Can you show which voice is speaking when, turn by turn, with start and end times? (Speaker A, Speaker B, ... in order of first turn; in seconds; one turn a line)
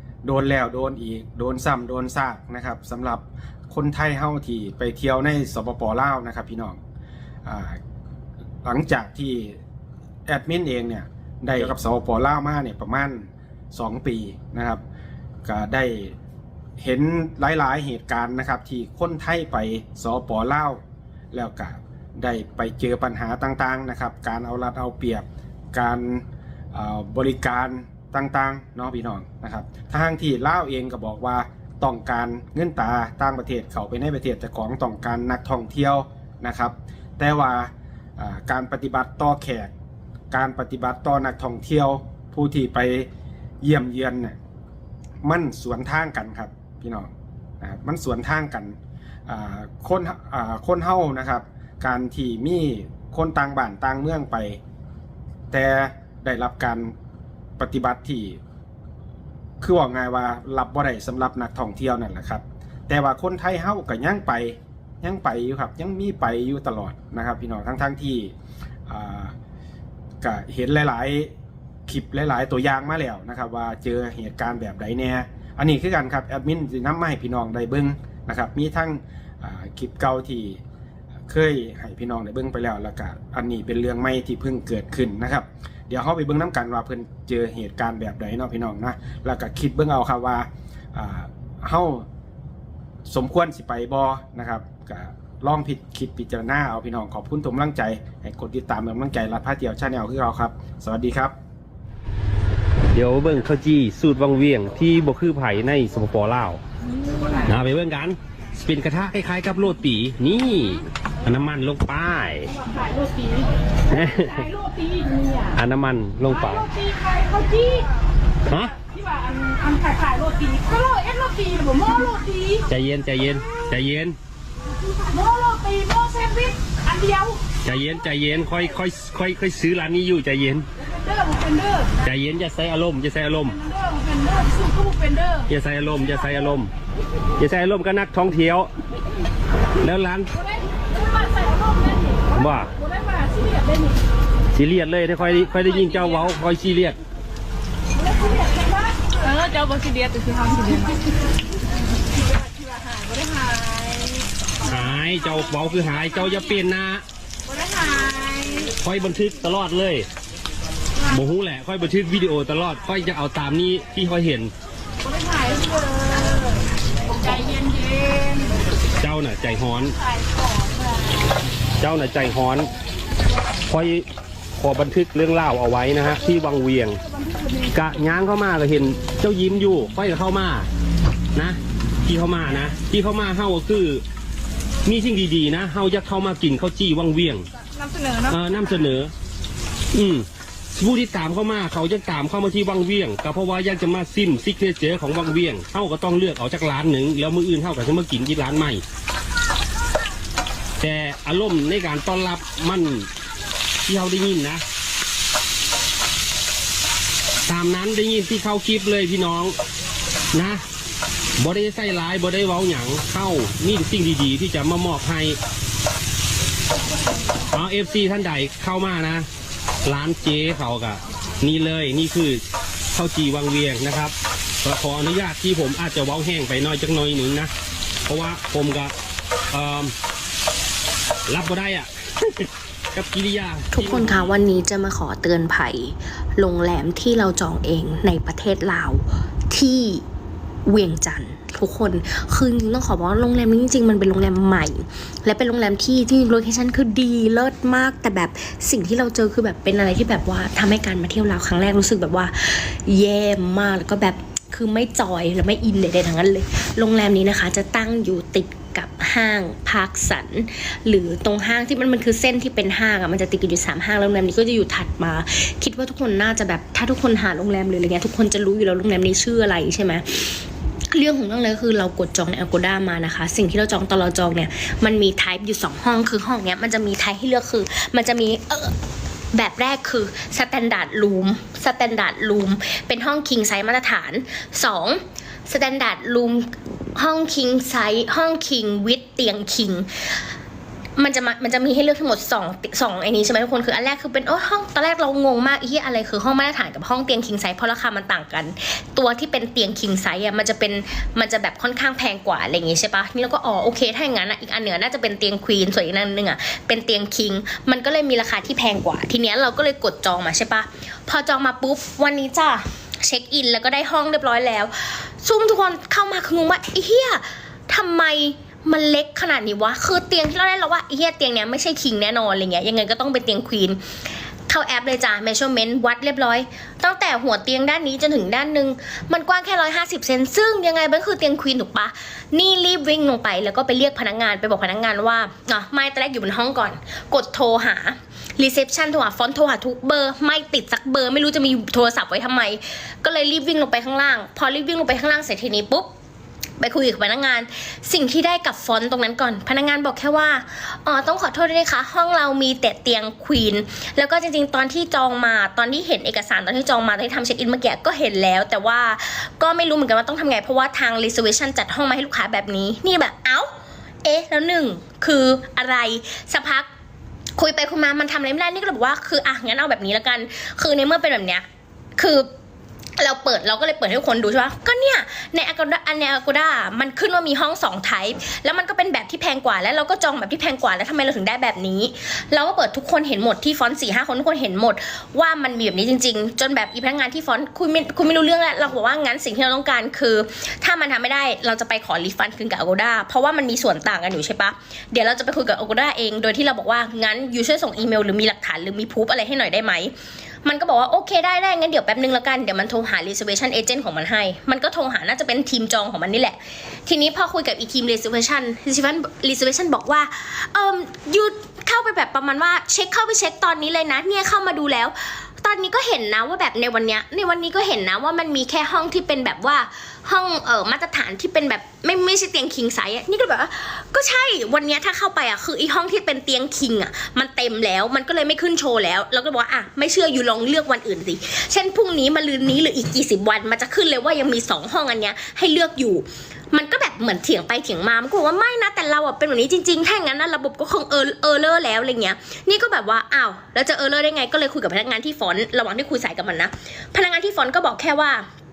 Speaker A: 0.2-6.8
Speaker A: 7.5-7.8
Speaker A: 8.6-9.6
Speaker A: 10.3-14.8
Speaker A: 15.4-16.2
Speaker A: 16.8-20.8
Speaker A: 21.3-39.7
Speaker A: 40.3-43.1
Speaker A: 43.6-44.4
Speaker A: 45.2-47.1
Speaker A: 47.6-54.6
Speaker A: 55.5-57.0
Speaker A: 57.6-58.4
Speaker A: 59.6-68.3
Speaker A: 68.9-69.3
Speaker A: 70.2-71.3
Speaker A: 71.9-80.6
Speaker A: 81.3-92.1
Speaker A: 93.1-101.3
Speaker B: 102.9-106.6
Speaker B: 107.4-112.5
Speaker C: 113.0-113.4
Speaker B: 113.9-114.6
Speaker C: 114.7-115.2
Speaker B: 115.5-116.7
Speaker C: 116.9-117.8
Speaker B: 118.5-118.8
Speaker C: 119.3-122.6
Speaker B: 122.7-124.2
Speaker C: 125.1-127.4
Speaker B: 127.6-130.7
Speaker C: 131.2-131.8
Speaker B: 132.0-133.6
Speaker C: 134.0-135.3
Speaker B: 135.5-136.7
Speaker B: 137.4-138.7
Speaker B: 139.8-140.3
Speaker C: 141.4-142.2
Speaker B: 142.3-142.7
Speaker C: 143.1-143.6
Speaker B: 144.5-147.0
Speaker C: 149.1-151.0
Speaker C: 153.2-153.9
Speaker B: 154.7-157.0
Speaker C: 158.0-158.5
Speaker B: 158.8-160.1
Speaker B: 161.1-164.5
Speaker C: 165.3-166.0
Speaker C: 167.3-168.1
Speaker B: 169.0-169.9
Speaker B: 171.8-172.7
Speaker B: 173.7-174.1
Speaker B: 174.6-177.0
Speaker B: 177.7-180.7
Speaker B: 181.3-184.0
Speaker B: 184.9-187.5
Speaker B: 188.2-189.1
Speaker B: 189.9-198.8
Speaker B: 200.8-203.1
Speaker B: 203.9-204.6
Speaker B: 207.5-209.6
Speaker B: 210.3-210.6
Speaker B: 211.4-215.4
Speaker B: 217.5-219.3
Speaker B: 219.8-222.4
Speaker B: 222.9-227.5
Speaker B: 228.1-228.9
Speaker B: 229.5-229.9
Speaker B: 231.3-234.1
Speaker D: 233.7-240.1
Speaker D: 240.7-278.8
Speaker D: 279.3-290.2
Speaker D: 291.0-323.8
Speaker D: 324.5-345.9
Speaker D: 346.6-363.5
Speaker D: 364.0-366.7
Speaker D: 367.4-371.4
Speaker D: 372.0-372.3
Speaker D: 373.0-448.2